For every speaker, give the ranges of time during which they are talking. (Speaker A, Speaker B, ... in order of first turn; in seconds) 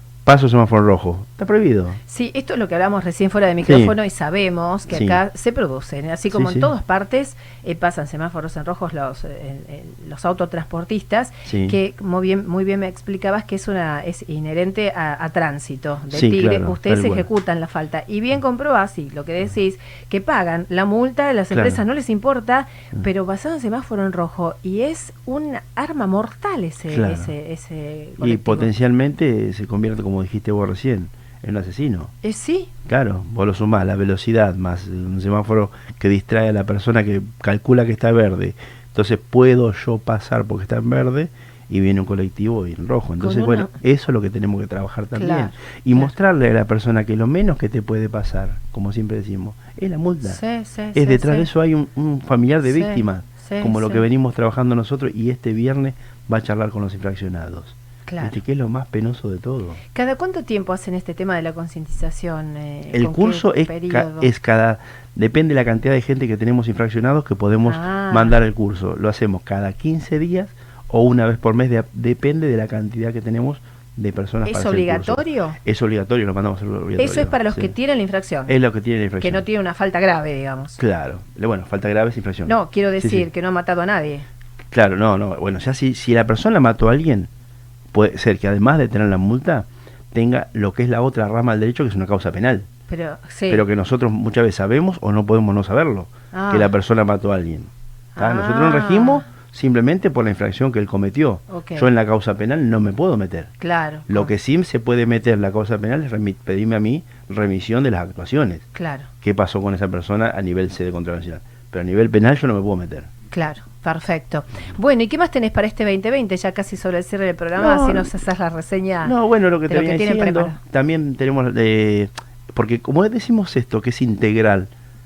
Speaker A: 0.2-2.0, 3.6-4.0, 4.9-5.2, 6.3-6.7, 11.4-11.8, 16.1-17.3, 21.5-21.8, 26.9-27.3, 28.2-32.1, 32.9-50.4, 50.9-59.8, 62.9-77.7, 78.5-79.4, 80.8-83.3, 84.7-87.3, 87.9-92.7, 93.5-103.5, 104.1-108.7, 109.2-113.1, 117.6-118.1, 119.0-124.7
Speaker B: 2.1-28.7, 32.2-32.7, 43.2-43.7, 45.1-46.1, 50.3-51.5, 52.6-54.0, 58.1-58.4, 59.9-64.3, 67.7-68.3, 74.4-75.6, 77.0-78.5, 79.2-80.8, 82.5-84.2, 92.9-93.6, 96.3-96.7, 98.2-99.2, 101.5-101.9, 103.6-104.3, 108.7-109.1, 113.3-119.1, 119.7-120.6